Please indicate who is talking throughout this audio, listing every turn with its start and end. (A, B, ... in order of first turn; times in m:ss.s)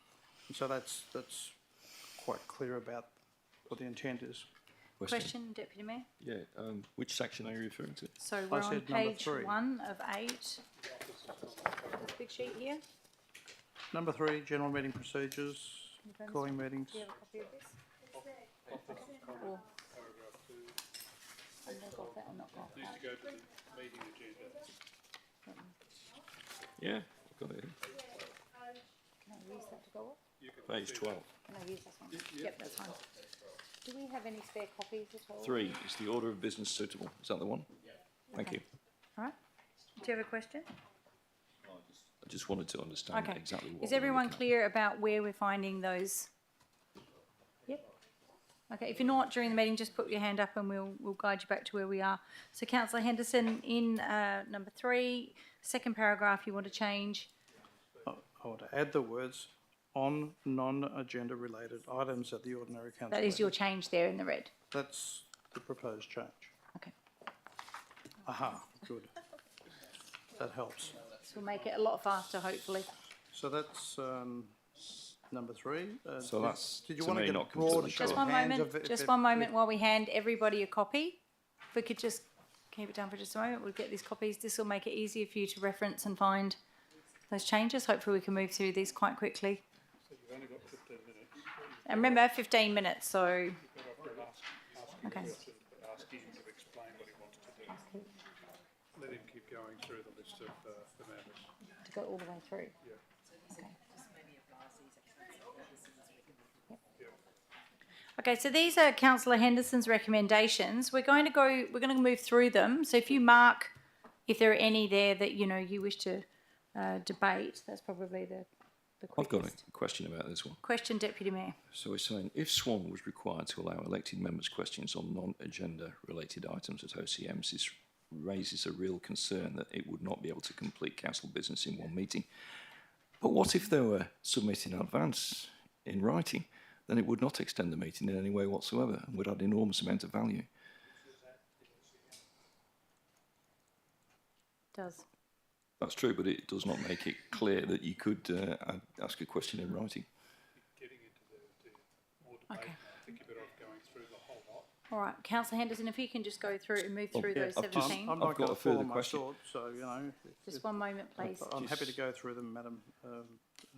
0:00.5-0:01.6 A
0:02.2-0:03.1 A
0:03.7-0:04.5 A
0:05.0-0:05.3 B
0:05.0-0:06.1 C
0:06.2-0:08.1 B
0:08.2-0:10.6 C
0:08.5-0:09.6 A
0:10.8-0:12.6 D
0:12.0-0:12.8 C
0:13.9-0:17.1 A
0:16.0-0:17.8 C
0:18.6-0:20.8 D
0:18.8-0:19.7 C
0:21.6-0:23.0 C
0:22.7-0:24.7 D
0:25.4-0:25.7 C
0:26.8-0:27.8 B
0:29.2-0:30.2 C
0:30.4-0:31.3 D
0:30.6-0:31.3 B
0:31.5-0:33.0 C
0:32.1-0:32.7 D
0:33.8-0:35.7 C
0:35.4-0:37.7 B
0:38.3-0:38.6 C
0:38.3-0:38.6 B
0:40.0-0:40.7 C
0:42.2-0:44.4 B
0:43.1-0:46.3 C
0:48.7-0:57.3 C
0:58.0-1:03.5 A
1:03.1-1:04.5 C
1:04.7-1:06.5 A
1:08.2-1:09.2 A
1:10.3-1:11.1 A
1:11.2-1:12.9 C
1:13.3-1:19.5 A
1:16.2-1:18.2 B
1:17.9-1:21.2 C
1:21.7-1:26.6 C
1:27.3-1:29.6 C
1:30.0-1:32.2 D
1:31.8-1:33.6 C
1:33.6-1:37.8 D
1:35.0-1:35.3 C
1:37.7-1:38.1 C
1:38.9-1:41.5 D
1:41.8-1:42.7 C
1:43.5-1:43.8 C
1:48.2-1:53.7 C
1:54.3-1:58.5 C
1:59.0-1:59.6 C
1:59.2-2:00.6 B
2:00.6-2:01.6 C
2:01.7-2:12.3 B
2:13.2-2:20.5 B
2:24.7-2:25.0 C
2:25.8-2:30.1 B
2:30.6-2:34.7 D
2:32.5-2:32.8 C
2:34.9-2:38.2 C
2:37.1-2:39.2 B
2:37.3-2:40.6 A
2:40.5-2:41.6 C
2:41.2-2:43.5 A
2:41.6-2:42.0 B